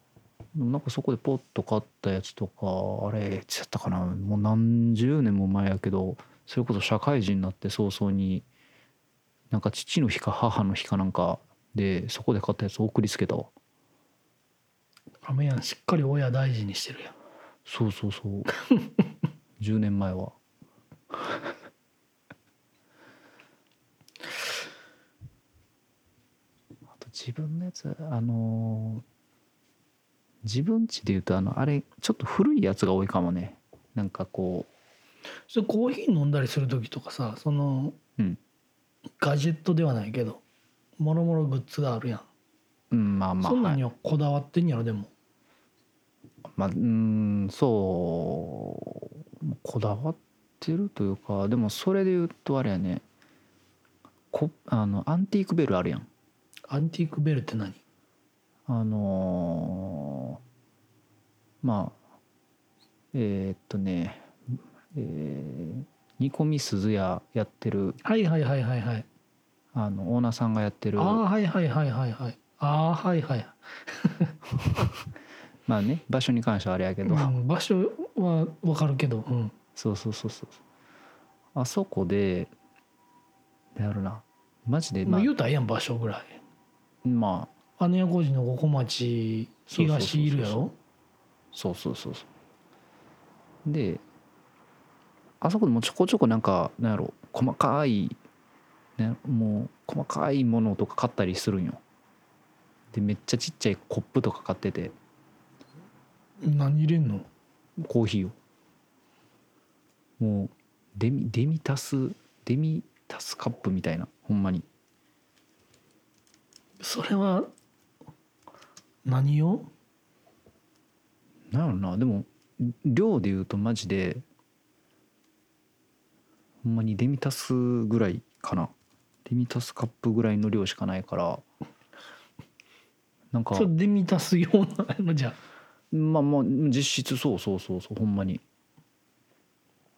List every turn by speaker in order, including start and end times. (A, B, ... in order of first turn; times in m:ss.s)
0:00.5-0:08.4 A
0:09.5-0:13.5 A
0:15.2-0:17.1 B
0:17.6-0:18.5 A
0:19.6-0:20.4 A
0:27.0-0:29.0 A
0:30.4-0:34.7 A
0:35.5-0:38.0 B
0:39.2-0:40.4 B
0:41.0-0:42.3 B
0:42.9-0:43.8 A
0:43.4-0:45.1 B
0:46.6-0:53.0 A
0:54.3-0:56.1 A
0:56.7-0:57.8 B
0:58.7-1:00.4 A
1:01.6-1:02.0 A
1:03.1-1:04.3 A
1:04.9-1:08.0 A
1:08.0-1:09.0 B
1:09.7-1:11.2 A
1:11.0-1:14.4 B
1:15.7-1:17.4 A
1:17.0-1:19.5 B
1:19.8-1:20.6 A
1:21.5-1:22.5 A
1:23.8-1:25.3 A
1:25.0-1:26.4 B
1:27.0-1:27.5 A
1:27.8-1:30.7 B
1:29.7-1:30.6 A
1:31.5-1:32.3 A
1:33.6-1:34.0 A
1:35.4-1:38.2 A
1:39.0-1:41.8 A
1:42.9-1:44.9 A
1:46.4-1:47.3 B
1:47.8-1:48.3 A
1:50.2-1:54.6 A
1:56.8-1:57.5 B
1:59.0-1:59.7 B
2:01.5-2:04.2 A
2:06.6-2:08.7 A
2:09.2-2:11.4 A
2:13.3-2:13.7 A
2:13.5-2:15.4 B
2:15.9-2:18.4 A